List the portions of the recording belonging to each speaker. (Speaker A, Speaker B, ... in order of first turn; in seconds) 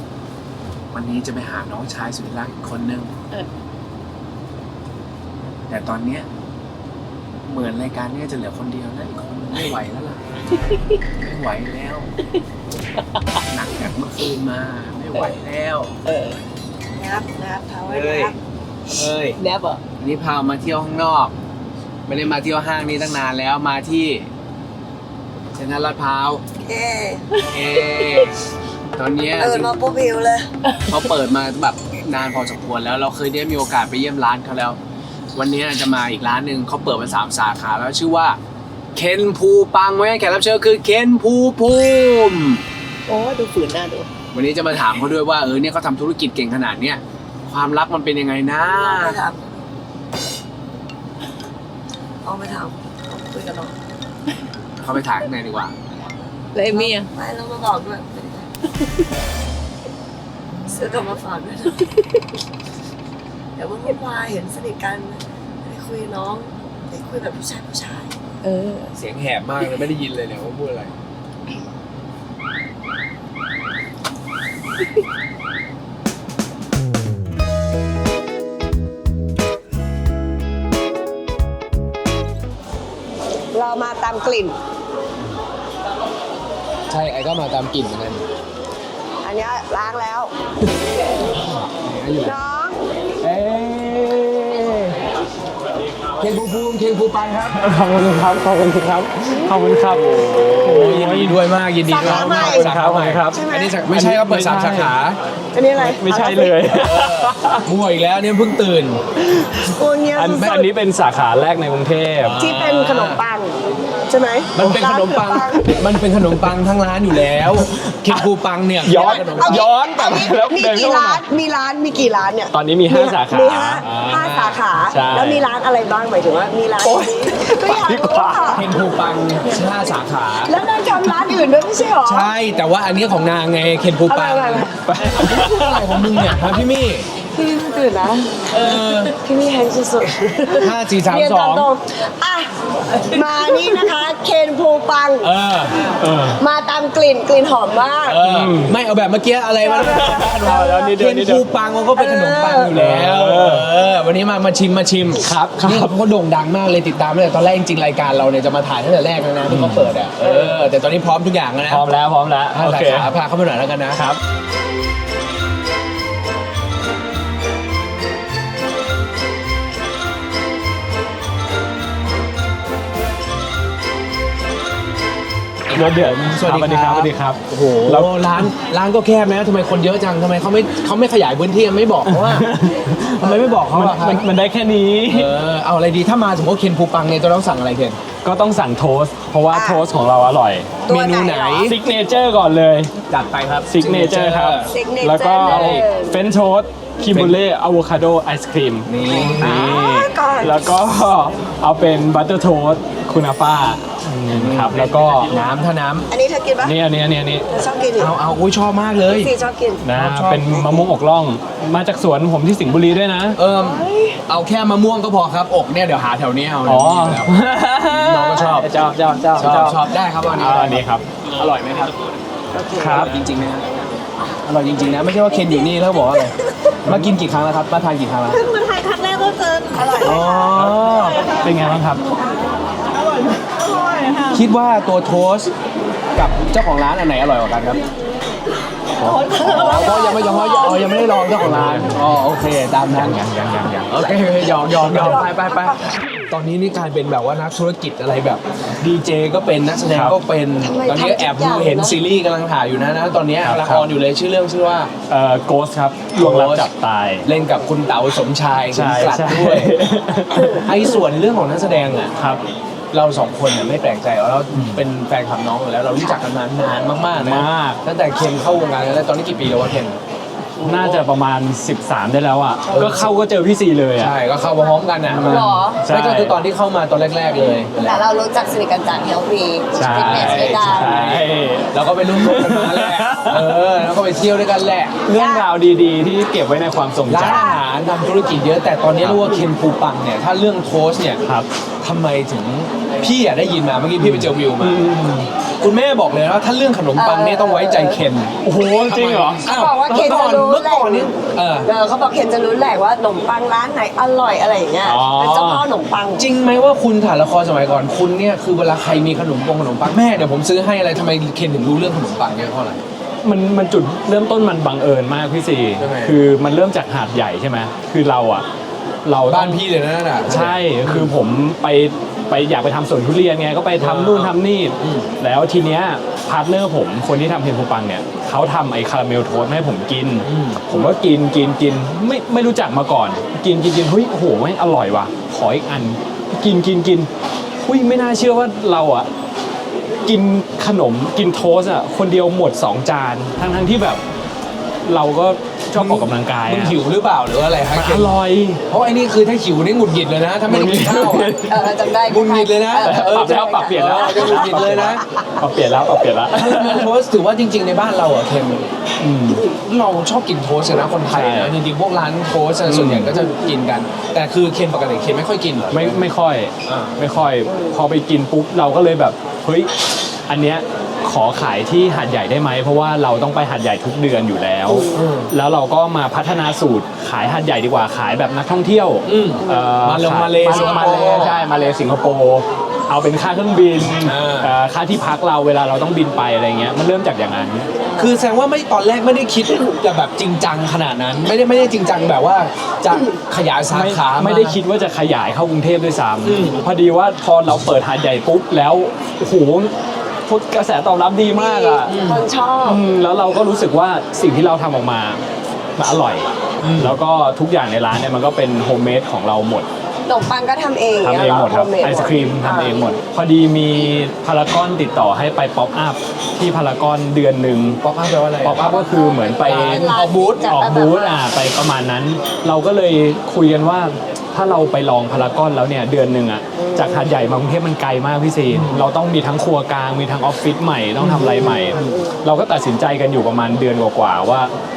Speaker A: 0.9-3.1, 5.7-6.3, 7.4-10.4, 11.2-12.1, 13.5-15.9, 17.9-18.3, 18.9-19.4, 20.0-21.4, 22.1-24.3, 25.5-26.4, 27.4-28.4, 28.9-29.7, 30.9-34.8, 35.3-38.4, 38.9-42.6, 44.3-49.2, 54.8-55.8, 69.0-70.9, 86.9-88.2, 91.6-92.3, 93.2-95.0, 96.2-97.6, 99.9-105.2, 106.8-109.0, 110.4-110.7, 112.2-113.2, 114.5-119.7, 123.8-124.6, 128.5-130.5, 132.0-137.1, 138.5-139.1, 140.2-141.7, 145.2-145.8, 148.1-161.9, 162.5-164.0, 175.7-182.5, 183.2-184.3, 185.1-188.0, 190.8-191.8, 193.1-194.7, 195.4-195.9, 197.0-197.3, 198.9-199.7, 204.3-206.1, 207.9-209.3, 209.9-210.9, 213.3-217.3, 217.9-218.7, 219.3-221.9, 222.8-223.7, 224.4-228.4, 230.0-231.3, 234.3-235.5, 236.1-237.8, 239.1-243.2, 243.9-254.9, 256.2-256.7, 257.2-259.7, 260.6-262.1, 262.9-270.0, 270.6-271.1, 272.7-273.1, 274.0-278.0, 279.9-285.0, 287.1-291.2, 291.8-301.7, 306.2-312.8, 315.8-316.2, 319.3-321.1, 323.8-325.1, 330.2-330.7, 345.7-348.1, 348.7-351.3, 352.0-355.0, 356.3-358.7, 359.4-366.1, 366.6-367.0, 374.9-375.3, 379.1-381.4, 384.0-384.5, 387.9-394.6, 396.2-396.6, 401.8-402.2, 406.6-407.0, 417.8-418.7, 419.4-420.5, 428.5-428.9, 431.0-432.0
Speaker B: 10.6-11.0, 13.2-13.4, 16.1-16.4, 19.4-19.8, 27.4-28.2, 43.1-44.1, 56.5-57.1, 68.4-68.9, 138.6-138.9, 234.0-234.3
Speaker C: 16.9-18.4, 26.6-27.2, 29.4-30.5, 48.6-49.6, 52.2-53.7, 56.7-58.5, 60.7-62.0, 63.6-68.1, 83.5-84.6, 89.2-90.3, 92.2-92.8, 101.8-102.7, 103.3-103.8, 105.5-106.8, 109.3-110.6, 112.4-113.6, 114.1-115.7, 118.9-128.7, 130.4-132.3, 134.1-135.4, 137.3-138.5, 139.1-145.3, 146.4-148.2, 149.6-150.9, 151.9-152.7, 189.5-189.8, 190.8-191.7, 194.7-196.2, 199.1-200.7, 206.1-206.8, 207.5-208.1, 209.1-209.8, 213.6-214.2, 222.5-223.1, 228.3-230.6, 233.7-234.0, 239.0-241.4, 245.0-245.8, 250.6-252.0, 272.7-273.0, 275.2-275.8, 277.8-280.9, 285.1-285.5, 287.2-287.6, 296.9-298.0, 299.4-301.1, 301.6-306.3, 351.4-354.9, 367.5-367.7, 374.7-375.0, 379.4-379.7, 380.4-381.6, 387.8-388.2, 401.3-402.8, 410.1-412.9, 418.6-421.2, 426.6-427.1, 431.6-432.2
Speaker D: 97.5-101.4, 102.0-104.9, 105.8-107.6, 110.1-112.4, 114.6-115.3, 117.6-118.2, 118.8-121.2, 122.5-123.8, 124.9-125.4, 126.8-128.7, 134.8-136.5, 146.0-146.4, 148.2-148.8, 149.8-151.5, 152.7-153.7, 155.2-155.9, 159.5-159.9, 161.7-163.1, 175.7-178.5, 182.1-185.3, 188.2-190.8, 191.6-192.9, 193.7-205.3, 206.6-207.4, 209.8-213.4, 216.6-219.8, 220.3-221.1, 222.8-223.2, 226.8-227.1, 230.5-232.0, 239.0-239.7, 241.4-241.9, 242.9-244.1, 244.8-245.2, 249.9-250.2, 253.4-253.9, 255.1-257.3, 258.7-261.0, 264.5-264.8, 267.1-267.8, 270.6-274.1, 275.1-276.4, 279.8-283.6, 285.1-287.6, 289.0-289.4, 294.0-295.3, 298.4-300.1, 304.8-305.6, 313.2-318.4, 319.0-319.6, 320.2-337.1, 337.6-339.1, 340.0-344.0, 344.8-346.8, 347.7-348.6, 350.5-351.7, 352.7-356.9, 359.0-359.4, 361.1-361.6, 362.6-363.1, 365.7-369.7, 370.3-387.7, 393.7-399.7, 400.3-402.0, 402.6-405.2, 405.8-409.7, 411.0-417.8, 418.4-434.5